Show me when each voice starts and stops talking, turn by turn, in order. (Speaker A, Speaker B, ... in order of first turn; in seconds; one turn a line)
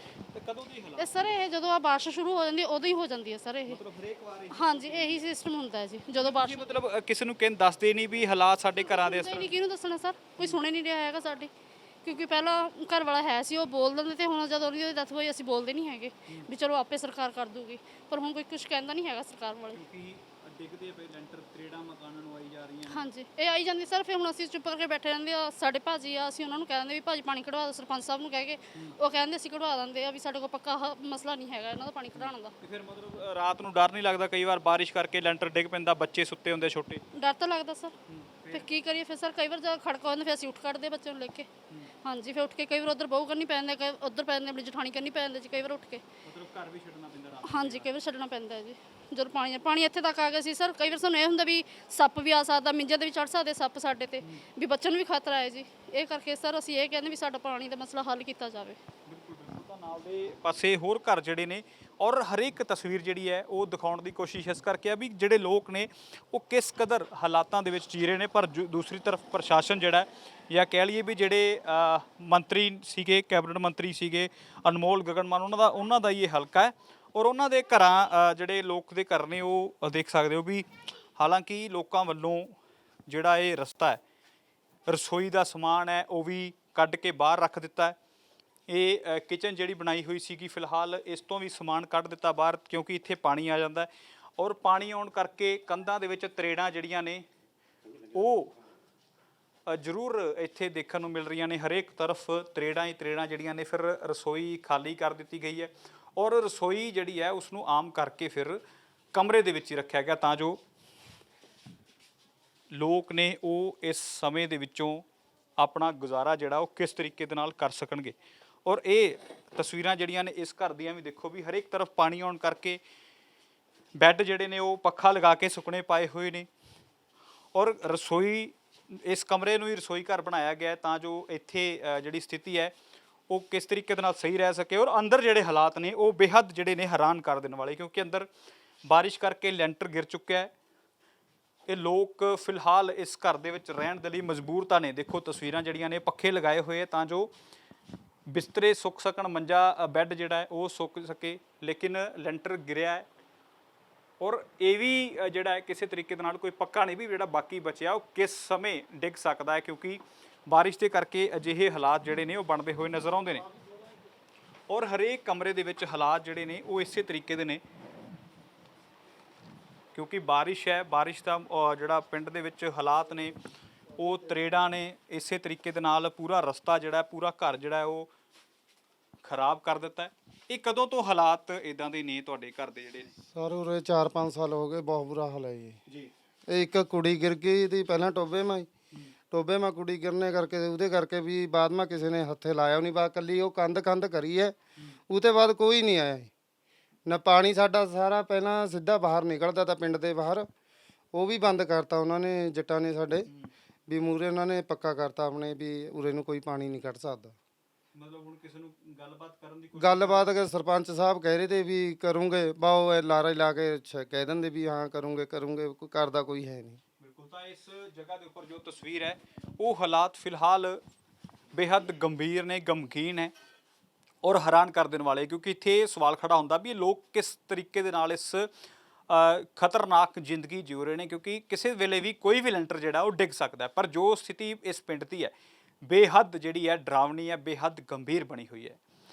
Speaker A: 0.3-1.2
Speaker B: 1.0-3.8
Speaker A: 3.7-5.2
Speaker B: 4.5-6.7
Speaker A: 6.2-9.5
Speaker B: 8.8-11.5
Speaker B: 12.0-19.8
Speaker A: 19.7-23.1
Speaker B: 22.9-32.5
Speaker A: 32.2-37.0
Speaker B: 37.1-37.9
Speaker A: 38.1-38.7
Speaker B: 38.5-41.5
Speaker B: 42.0-46.0
Speaker A: 46.2-47.9
Speaker B: 47.4-58.8
Speaker A: 59.1-82.5
Speaker A: 83.1-84.0
Speaker A: 84.9-88.0
Speaker A: 88.7-97.2
Speaker A: 98.1-98.5
Speaker A: 99.7-108.6
Speaker A: 109.1-110.6
Speaker A: 112.7-115.0
Speaker A: 115.6-118.2
Speaker A: 118.7-122.8
Speaker A: 124.0-126.5
Speaker A: 127.5-132.7
Speaker A: 133.3-138.3
Speaker A: 138.9-140.5
Speaker A: 141.7-147.3
Speaker A: 148.3-153.1
Speaker A: 154.2-163.5
Speaker A: 164.7-167.6
Speaker A: 169.9-173.4
Speaker A: 173.9-178.1
Speaker A: 179.2-183.1
Speaker C: 183.3-185.8
Speaker C: 186.5-188.7
Speaker C: 189.3-194.6
Speaker C: 195.1-196.3
Speaker C: 197.1-200.5
Speaker C: 201.1-203.3
Speaker C: 203.9-207.3
Speaker A: 207.9-210.3
Speaker C: 209.8-216.8
Speaker A: 217.0-220.8
Speaker A: 221.5-223.3
Speaker A: 224.2-228.5
Speaker A: 229.1-235.3
Speaker A: 235.8-238.8